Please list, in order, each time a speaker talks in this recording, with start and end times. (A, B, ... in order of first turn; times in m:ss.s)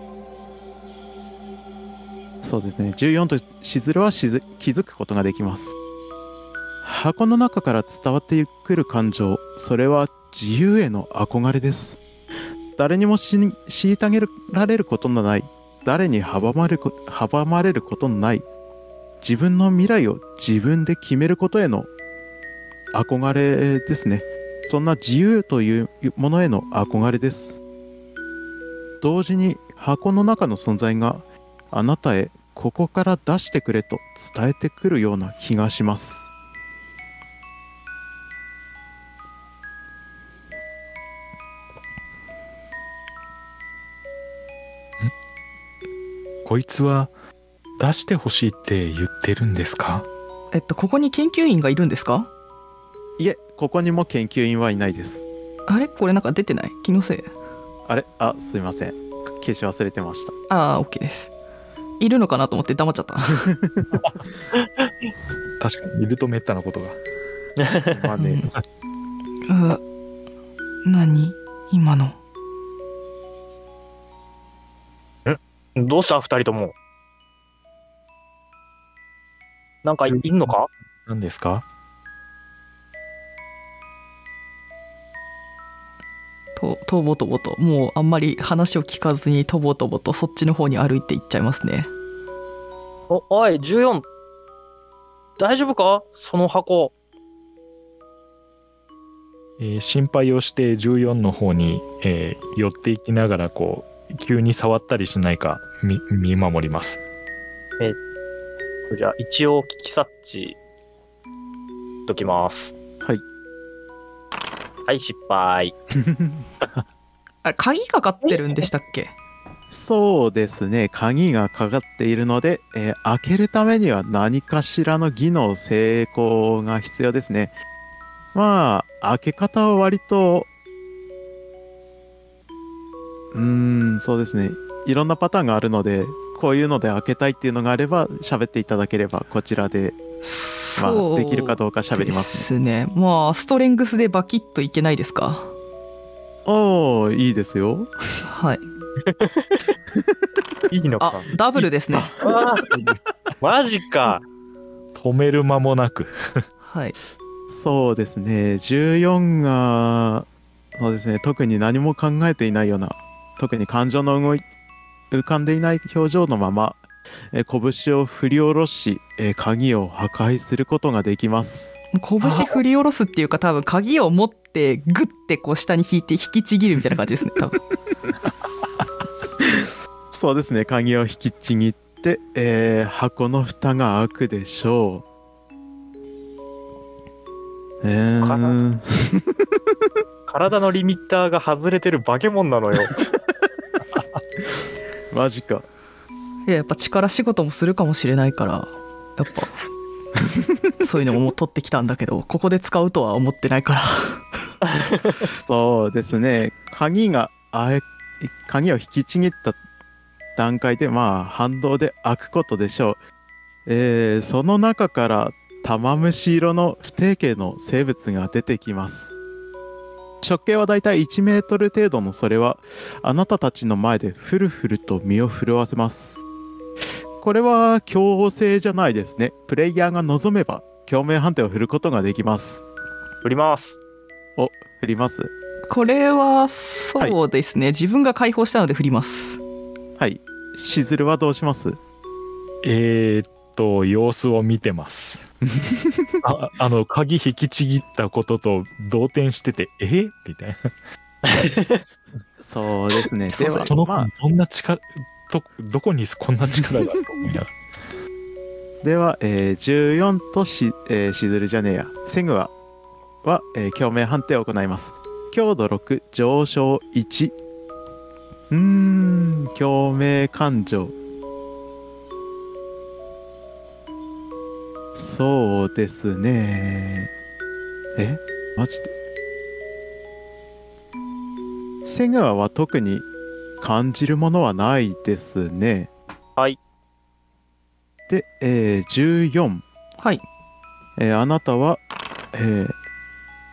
0:02.4-0:05.7 A
0:06.8-0:12.0 A
0:12.8-0:18.4 A
0:19.2-0:21.9 A
0:22.9-0:27.6 A
0:29.0-0:36.3 A
0:46.4-0:47.1 B
0:47.8-0:50.1 B
0:50.5-0:52.3 C
0:53.2-0:55.2 A
0:55.7-0:57.3 C
0:57.9-1:00.3 A
1:00.5-1:01.3 C
1:02.0-1:03.5 C
1:03.3-1:03.9 A
1:03.9-1:05.1 B
1:05.6-1:07.0 B
1:07.6-1:07.9 D
1:07.9-1:08.5 A
1:08.2-1:08.5 C
1:09.5-1:09.8 C
1:10.8-1:12.2 C
1:15.2-1:16.7 D
1:19.8-1:20.7 D
1:20.0-1:21.6 B
1:26.6-1:31.9 C
1:33.1-1:34.1 D
1:35.4-1:36.9 D
1:39.6-1:47.0 B
1:48.9-1:50.6 D
1:52.1-1:52.8 D
1:54.9-1:55.8 D
1:56.0-1:56.4 A
1:57.4-1:59.1 C
1:58.2-1:58.7 D
1:59.7-2:07.5 A
2:08.3-2:10.5 A
2:13.3-2:20.0 A
2:20.2-2:25.5 C
2:20.8-2:22.5 A
2:26.4-2:27.9 A
2:28.2-2:28.6 C
2:29.1-2:29.7 D
2:30.7-2:31.3 D
2:31.0-2:32.1 C
2:31.6-2:32.4 A
2:32.2-2:32.7 D
2:33.4-2:34.2 D
2:35.0-2:36.1 B
2:36.6-2:37.0 C
2:37.5-2:44.4 A
2:45.1-2:52.6 A
2:51.9-2:57.6 C
2:59.4-3:05.0 A
3:07.8-3:09.4 A
3:08.2-3:08.6 D
3:10.3-3:12.9 D
3:13.9-3:14.2 B
3:15.1-3:15.7 A
3:16.5-3:19.5 C
3:20.8-3:24.2 C
3:25.4-3:29.6 A
3:30.4-3:33.0 A
3:33.7-3:39.1 A
3:40.2-3:46.2 A
3:47.2-3:52.6 A
3:53.2-3:53.8 D
3:54.4-3:55.3 A
3:55.7-3:59.4 C
4:00.0-4:01.8 A
4:02.6-4:05.2 B
4:05.5-4:06.2 A
4:06.2-4:10.7 B
4:11.2-4:11.8 D
4:12.4-4:14.1 A
4:13.3-4:13.7 C
4:13.6-4:17.6 B
4:18.8-4:22.5 A
4:23.2-4:27.4 A
4:28.5-4:31.0 A
4:35.0-4:37.1 A
4:38.0-4:38.9 A
4:41.8-4:43.1 A
4:43.6-4:45.9 A
4:48.1-4:49.6 A
4:50.0-4:50.2 C
4:51.0-4:52.8 A